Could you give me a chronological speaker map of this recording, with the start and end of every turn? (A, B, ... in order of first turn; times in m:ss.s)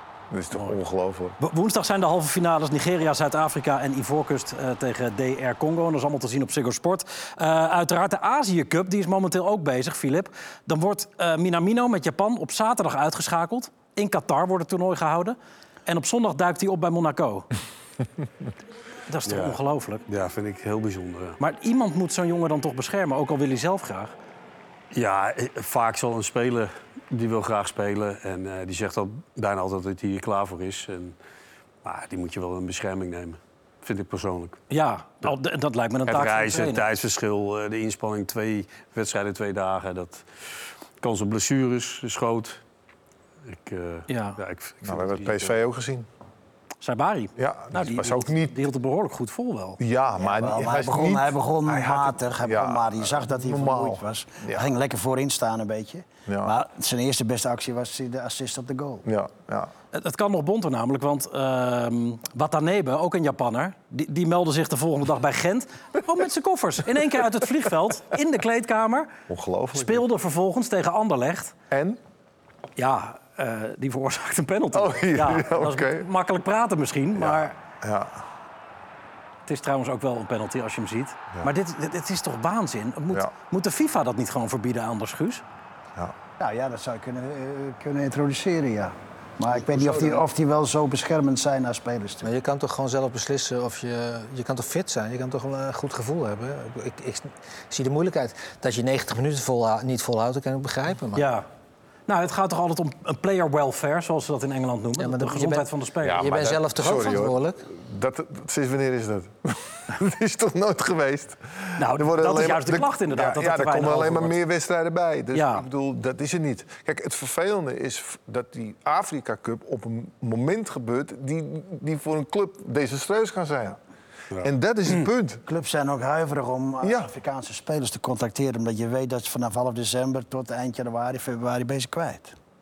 0:00.3-0:01.4 A
0:01.4-0:17.5 B
0:19.1-0:20.0 B
0:19.2-0:21.4 C
0:21.4-0:24.1 B
0:24.9-0:31.2 C
0:31.8-0:34.6 C
0:34.7-0:36.8 B
0:36.1-0:40.2 C
0:41.0-0:42.6 C
0:43.4-0:45.6 C
0:44.1-0:44.4 B
0:44.8-0:46.1 A
0:46.8-0:49.8 B
0:47.4-0:48.6 A
0:49.8-0:54.7 A
0:50.2-0:59.0 D
0:56.2-0:56.5 A
0:59.0-0:59.7 A
0:59.9-1:09.1 B
1:09.3-1:10.1 A
1:09.7-1:11.5 B
1:11.7-1:12.0 A
1:12.8-1:17.6 B
1:14.7-1:16.1 A
1:17.1-1:18.2 A
1:19.5-1:25.4 B
1:26.4-1:32.3 D
1:32.2-1:41.3 E
1:41.1-1:41.4 B
1:42.1-1:46.2 B
1:45.0-1:47.6 E
1:46.0-2:03.8 A
1:51.8-1:54.4 B
1:55.3-1:55.6 B
2:04.4-2:05.4 A
2:05.4-2:12.3 D
2:06.8-2:07.1 A